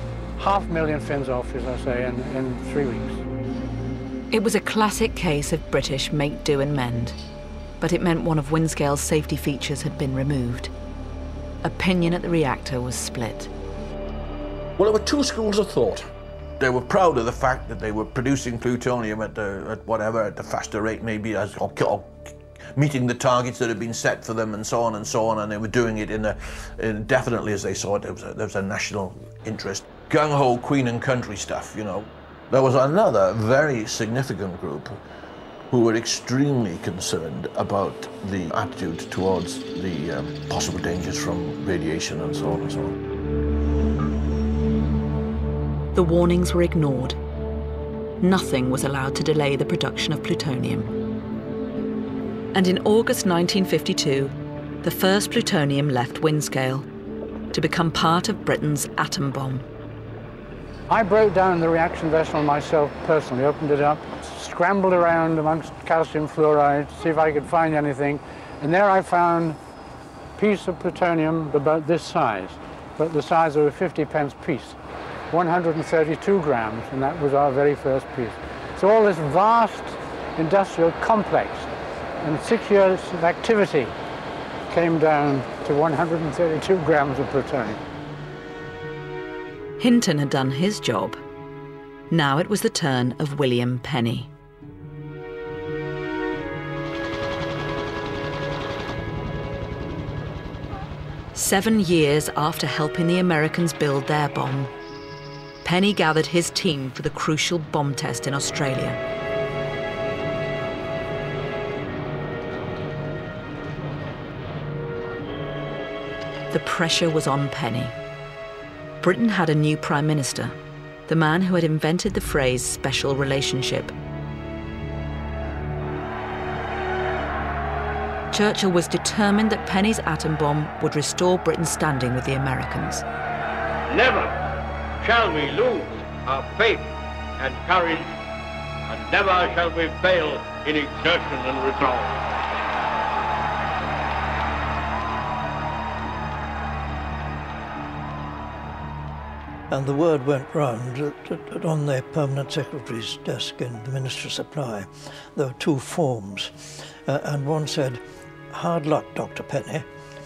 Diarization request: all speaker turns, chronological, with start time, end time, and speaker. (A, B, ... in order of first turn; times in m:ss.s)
0:00.4-0:03.2 A
0:04.3-0:07.2 B
0:07.8-0:10.7 B
0:11.6-0:13.5 B
0:14.8-0:16.0 C
0:16.6-0:22.2 C
0:22.8-0:35.0 C
0:35.7-0:42.9 C
0:45.9-0:47.2 B
0:48.2-0:50.9 B
0:52.5-0:56.8 B
0:57.5-0:59.6 B
1:00.9-1:09.6 A
1:10.4-1:14.8 A
1:15.3-1:23.9 A
1:24.7-1:27.8 A
1:29.8-1:31.2 B
1:32.1-1:34.3 B
1:41.3-1:44.7 B
1:45.6-1:49.0 B
1:56.5-1:57.9 B
1:59.0-2:03.9 B
2:08.3-2:13.0 B
2:13.9-2:14.4 D
2:15.0-2:18.1 D
2:18.9-2:22.2 D
2:29.7-2:36.5 E
2:37.0-2:38.0 E
2:38.5-2:39.8 E